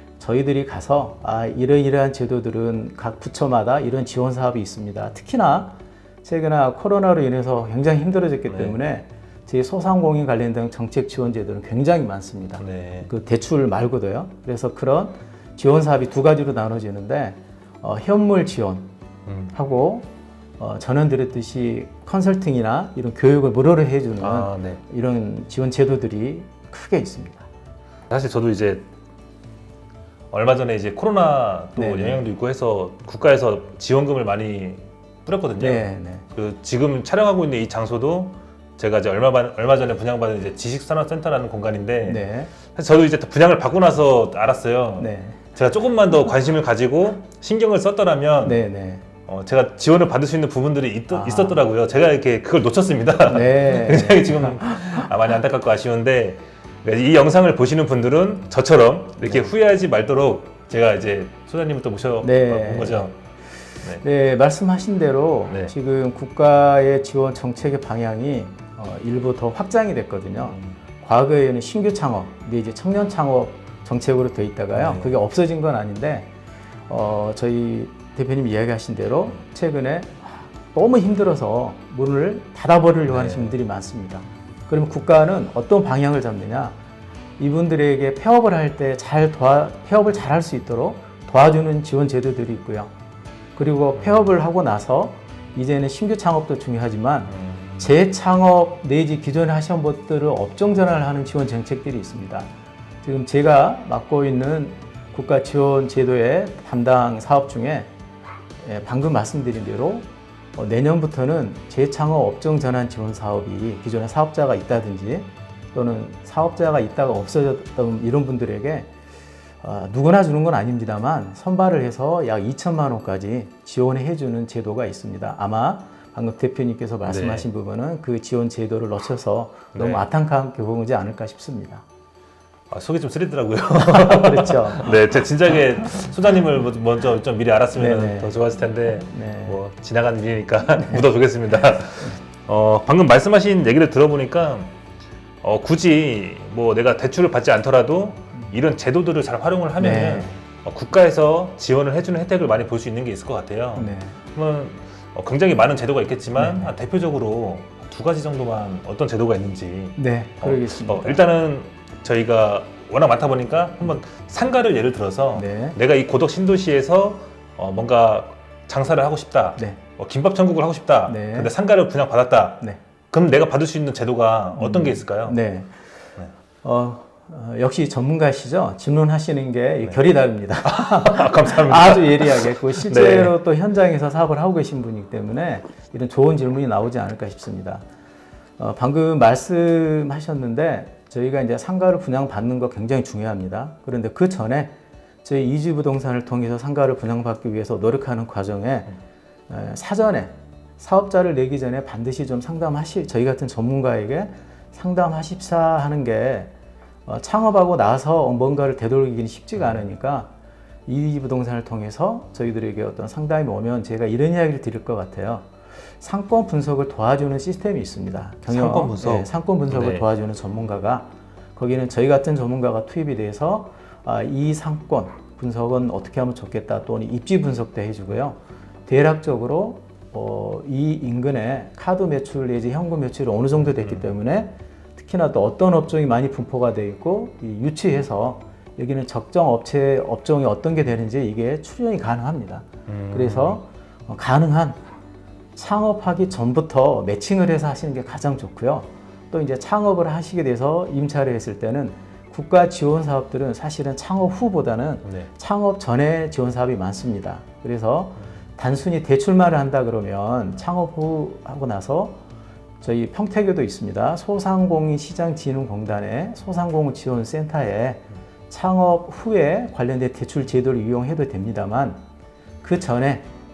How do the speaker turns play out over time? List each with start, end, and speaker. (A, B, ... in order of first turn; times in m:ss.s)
0:00.2-0:18.9 A
0:08.5-0:08.8 B
0:12.6-0:13.1 B
0:19.3-0:19.5 B
0:19.5-0:27.5 A
0:24.2-0:24.8 B
0:28.1-0:28.9 B
0:30.3-0:48.6 B
0:31.8-0:32.2 A
0:35.6-0:36.2 A
0:42.1-0:42.5 A
0:45.0-0:45.4 A
0:48.4-0:49.0 A
0:49.3-1:03.2 B
0:51.1-0:51.6 A
0:53.3-0:55.0 A
1:02.2-1:03.1 A
1:04.0-1:16.3 A
1:05.5-1:05.7 B
1:10.5-1:10.8 B
1:14.7-1:15.1 B
1:16.9-1:26.8 A
1:23.1-1:23.6 B
1:27.4-1:32.9 A
1:33.6-1:42.5 A
1:34.0-1:34.3 B
1:37.3-1:37.9 B
1:43.0-1:47.9 A
1:48.6-1:58.9 A
1:59.6-2:11.8 A
2:07.1-2:07.4 B
2:09.7-2:10.0 B
2:12.7-2:24.7 B
2:13.8-2:15.0 A
2:17.8-2:18.4 A
2:18.9-2:19.6 A
2:20.8-2:21.0 A
2:25.4-2:55.4 B
2:29.8-2:30.4 A
2:33.8-2:34.2 A
2:36.4-2:36.7 A
2:40.0-2:41.2 A
2:45.3-2:45.8 A
2:51.1-2:51.5 A
2:54.6-2:55.8 A
2:56.6-3:07.8 A
3:00.6-3:03.4 B
3:08.6-3:18.9 A
3:19.5-3:26.5 A
3:27.0-3:30.3 A
3:30.8-4:04.8 A
3:38.5-3:40.0 B
3:53.8-3:54.1 B
4:02.9-4:03.6 B
4:05.6-4:22.2 A
4:15.0-4:15.3 B
4:22.8-4:32.0 A
4:32.6-4:33.3 A